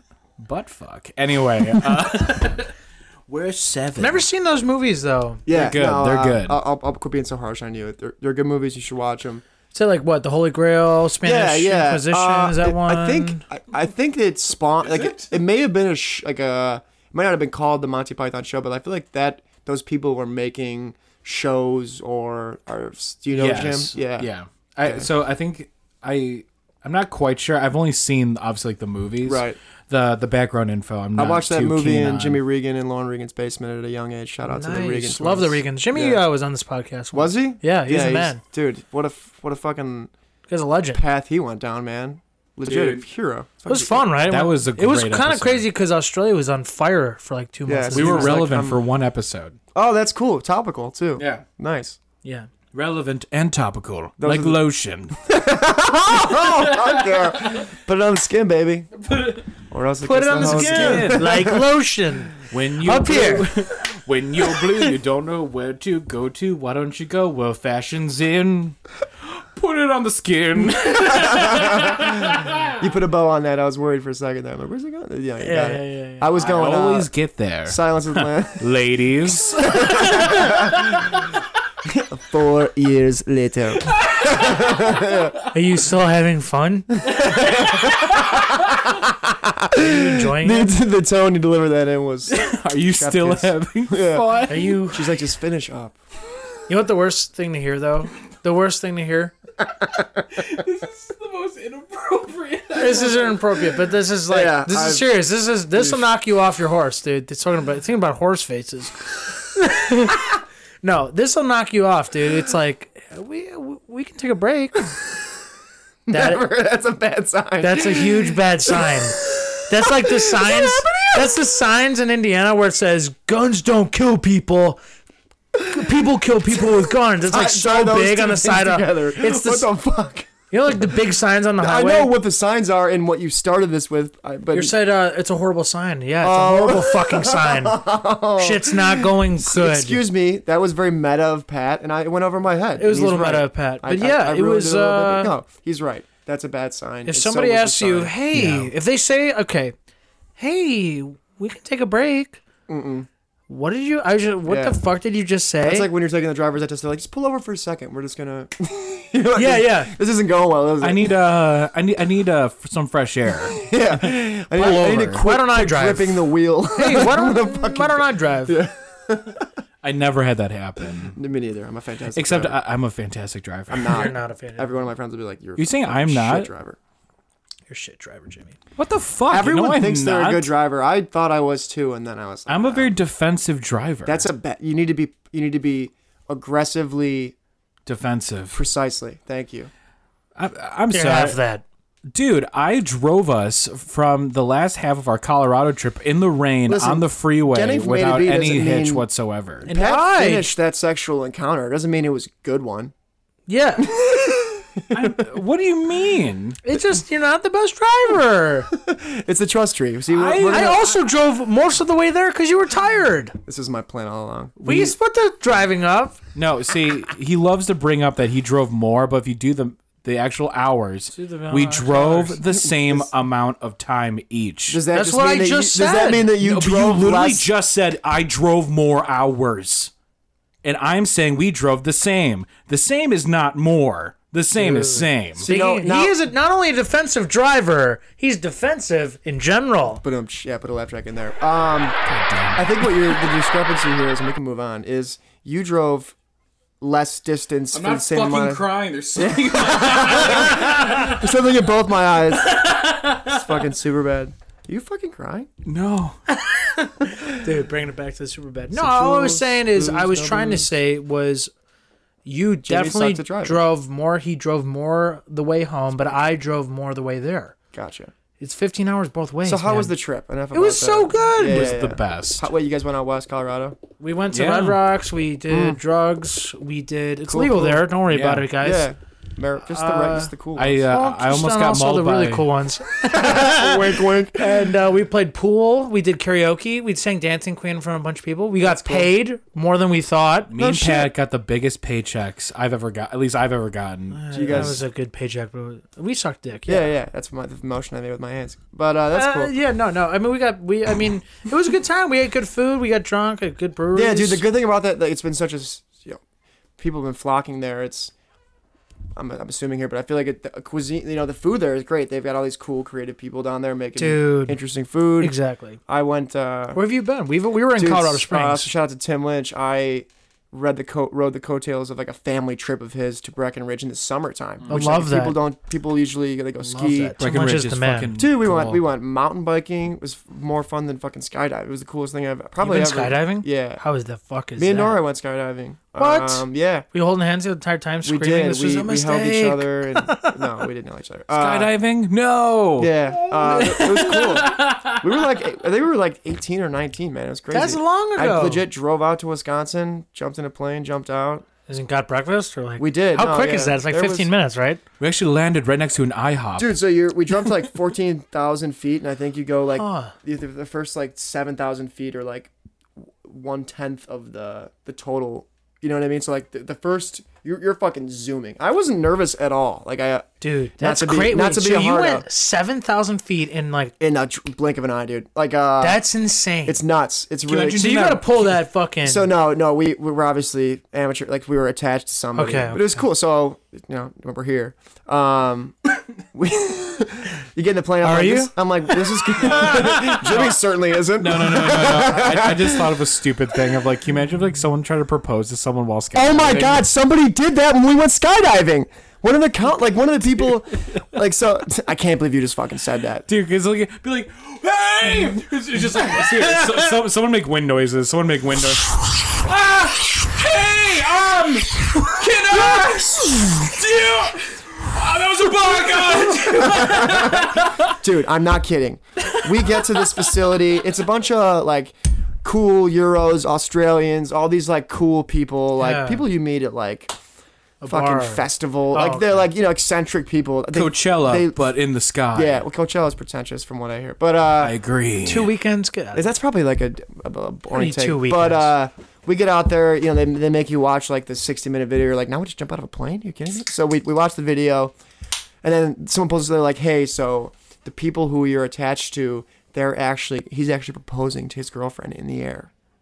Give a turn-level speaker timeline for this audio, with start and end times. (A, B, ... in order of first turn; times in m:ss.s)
0:00.4-0:02.7 A
0:03.3-0:04.2 A
0:04.0-0:05.4 B
0:05.5-0:09.4 C
0:05.5-0:06.6 A
0:09.7-0:13.4 B
0:11.2-0:24.3 C
0:14.8-0:15.3 A
0:23.3-0:32.4 A
0:29.2-0:29.6 C
0:31.2-0:36.2 C
0:34.4-0:38.4 B
0:37.1-0:40.1 C
0:40.5-0:41.0 B
0:40.9-0:44.1 C
0:42.6-0:43.0 A
0:43.7-0:48.6 B
0:44.2-0:45.7 A
0:47.7-0:48.8 C
0:47.9-0:49.6 A
0:49.7-0:52.0 C
0:51.2-0:51.4 A
0:52.2-0:52.5 B
0:52.7-0:55.1 A
0:54.2-0:54.6 C
0:55.2-0:58.9 C
0:56.3-0:57.6 A
0:59.0-0:59.4 A
0:59.7-1:01.7 C
1:00.0-1:03.7 B
1:00.3-1:01.5 A
1:02.5-1:12.7 A
1:04.6-1:04.9 B
1:11.0-1:17.1 C
1:15.4-1:16.3 B
1:16.3-1:21.2 A
1:17.6-1:18.7 C
1:19.4-1:20.8 C
1:21.8-1:25.3 C
1:23.9-1:24.8 A
1:25.5-1:26.9 B
1:27.0-1:36.0 C
1:27.6-1:27.9 A
1:29.7-1:30.7 B
1:32.3-1:34.8 A
1:34.5-1:35.1 B
1:36.7-1:39.3 B
1:40.3-1:43.8 A
1:42.8-1:54.9 B
1:44.3-1:45.0 C
1:45.7-1:46.0 C
1:56.1-2:01.4 C
1:56.1-1:56.4 B
1:57.6-2:04.8 B
2:05.5-2:05.9 C
2:05.7-2:09.7 B
2:07.2-2:10.3 C
2:10.5-2:12.1 B
2:11.6-2:14.7 C
2:14.5-2:17.8 B
2:16.2-2:28.2 C
2:18.4-2:20.0 B
2:22.8-2:25.3 B
2:27.0-2:29.7 B
2:28.3-2:28.7 A
2:30.4-2:32.4 B
2:32.7-2:33.1 C
2:33.5-2:35.9 B
2:34.5-2:34.8 C
2:35.6-2:41.2 C
2:39.4-2:39.9 B
2:40.8-2:45.2 A
2:43.5-2:49.5 C
2:45.1-2:48.6 B
2:49.8-2:51.2 A
2:51.1-2:52.6 C
2:52.1-2:54.1 A
2:53.7-2:56.8 C
2:53.9-2:54.7 B
2:55.6-2:56.5 A
2:57.7-2:58.6 B
2:58.8-3:00.5 A
2:59.3-3:02.9 C
3:02.5-3:04.3 A
3:04.0-3:07.3 C
3:07.8-3:08.6 A
3:08.5-3:09.7 C
3:10.4-3:11.4 A
3:10.9-3:11.6 B
3:12.1-3:19.7 A
3:16.7-3:19.0 C
3:19.6-3:22.9 C
3:19.6-3:20.5 B
3:23.5-3:23.9 B
3:23.8-3:25.2 C
3:24.9-3:26.6 A
3:26.6-3:28.7 B
3:28.7-3:30.9 C
3:30.1-3:30.8 A
3:30.4-3:33.4 B
3:33.4-3:34.9 C
3:34.6-3:36.2 B
3:36.3-3:44.8 A
3:41.1-3:42.4 B
3:42.6-3:43.1 C
3:44.7-3:47.5 C
3:44.9-3:46.3 B
3:46.4-3:49.9 A
3:50.6-3:55.5 A
3:54.6-4:00.0 B
3:55.4-3:56.2 C
4:00.0-4:01.9 C
4:02.0-4:02.7 A
4:02.6-4:06.1 C
4:06.8-4:15.5 C
4:07.7-4:11.3 A
4:12.6-4:13.0 A
4:12.7-4:13.2 B
4:15.6-4:16.2 A
4:16.5-4:21.5 B
4:18.7-4:20.7 C
4:22.2-4:27.6 B
4:22.6-4:23.6 C
4:27.7-4:28.1 C
4:28.4-4:29.9 B
4:29.4-4:33.8 C
4:30.5-4:31.7 B
4:31.4-4:32.4 A
4:34.0-4:38.9 B
4:34.3-4:34.8 A
4:35.5-4:35.8 C
4:37.3-4:37.8 C
4:38.1-4:38.5 A
4:38.6-4:40.9 C
4:39.7-4:40.3 B
4:40.6-4:42.5 A
4:40.9-4:50.5 B
4:43.0-4:44.7 C
4:48.6-4:49.1 C
4:50.5-4:54.8 A
4:50.6-4:51.1 C
4:54.1-4:56.9 B
4:54.3-4:54.8 C
4:56.7-4:59.5 C
4:59.1-5:04.4 B
5:03.9-5:06.2 C
5:06.8-5:08.1 C
5:09.2-5:15.4 C
5:14.0-5:14.6 B
5:15.2-5:15.8 B
5:15.9-5:16.8 C
5:16.7-5:18.7 B
5:17.7-5:27.1 C
5:24.7-5:25.4 B
5:26.6-5:28.1 B
5:27.2-5:28.8 A
5:28.2-5:33.8 C
5:32.6-5:35.0 B
5:34.6-5:36.8 C
5:36.0-5:40.6 B
5:38.0-5:41.7 C
5:41.3-5:45.0 A
5:42.8-5:51.4 C
5:43.7-5:44.3 B
5:47.5-5:48.6 B
5:51.7-5:54.8 B
5:52.8-5:54.3 C
5:55.0-5:56.8 A
5:56.6-6:02.5 C
5:59.7-6:00.1 B
6:03.2-6:12.2 C
6:10.4-6:13.9 B
6:14.0-6:16.0 C
6:15.8-6:16.8 B
6:16.6-6:17.9 C
6:17.4-6:18.6 A
6:17.6-6:19.2 B
6:19.0-6:25.7 C
6:22.3-6:22.9 B
6:26.3-6:33.0 C
6:28.0-6:28.5 B
6:29.5-6:30.2 B
6:29.5-6:30.6 A
6:31.2-6:36.8 A
6:36.1-6:43.3 C
6:43.3-6:57.9 A
6:56.5-7:07.1 C
7:05.8-7:06.2 B
7:07.8-7:09.5 B
7:07.8-7:11.6 C
7:10.7-7:12.6 A
7:12.3-7:14.8 C
7:14.6-7:15.5 A
7:15.2-7:16.3 B
7:16.1-7:24.9 C
7:17.7-7:18.7 B
7:25.6-7:32.7 C